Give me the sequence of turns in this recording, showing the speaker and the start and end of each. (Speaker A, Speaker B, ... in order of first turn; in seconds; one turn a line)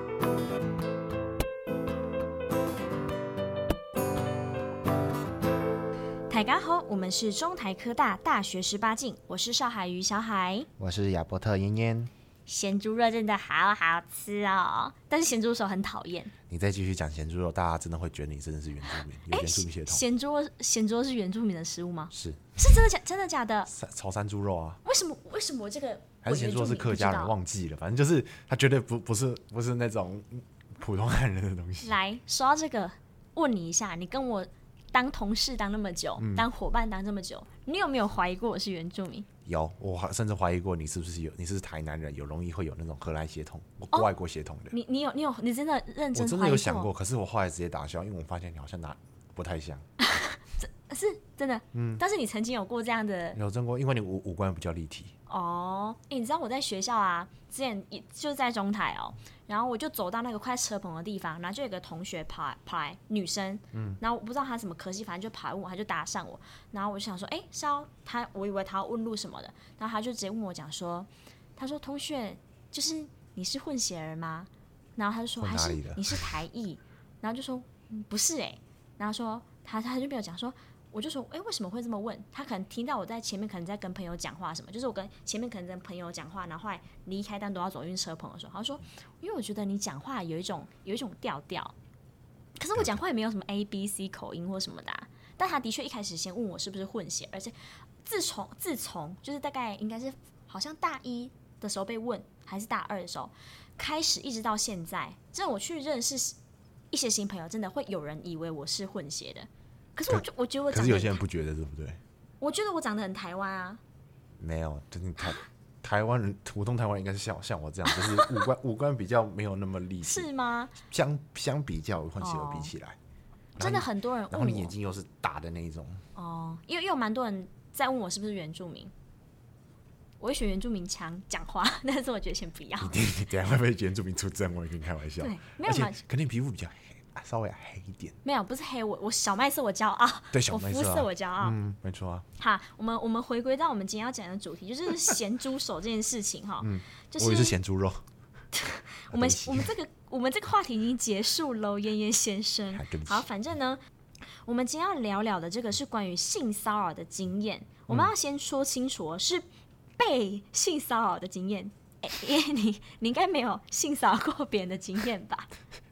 Speaker A: 6.3-10.7
Speaker B: 10.8-12.1
Speaker A: 12.5-16.3
Speaker B: 16.5-20.0
Speaker A: 18.9-23.7
Speaker B: 22.1-22.5
Speaker B: 23.7-24.8
Speaker A: 24.8-27.3
Speaker B: 26.2-31.9
Speaker A: 31.8-39.3
Speaker B: 36.2-36.5
Speaker B: 39.4-44.7
Speaker A: 44.7-46.9
Speaker B: 46.1-49.9
Speaker A: 50.0-53.4
Speaker B: 51.7-52.0
Speaker B: 53.3-55.1
Speaker A: 55.3-91.7
Speaker B: 63.7-64.0
Speaker B: 75.4-76.3
Speaker A: 92.6-106.3
Speaker A: 106.9-111.2
Speaker B: 110.1-112.0
Speaker A: 112.4-113.8
Speaker B: 114.4-120.3
Speaker A: 117.9-118.5
Speaker A: 120.0-120.7
Speaker B: 120.8-123.0
Speaker A: 122.2-122.7
Speaker B: 123.5-126.0
Speaker A: 123.6-124.7
Speaker A: 126.2-128.9
Speaker A: 130.2-133.0
Speaker B: 132.8-138.2
Speaker A: 135.2-136.0
Speaker A: 138.2-141.6
Speaker B: 140.3-142.3
Speaker A: 142.4-147.6
Speaker B: 146.6-148.0
Speaker A: 148.5-153.8
Speaker B: 149.1-149.7
Speaker B: 152.7-153.3
Speaker A: 154.4-159.4
Speaker A: 160.0-165.5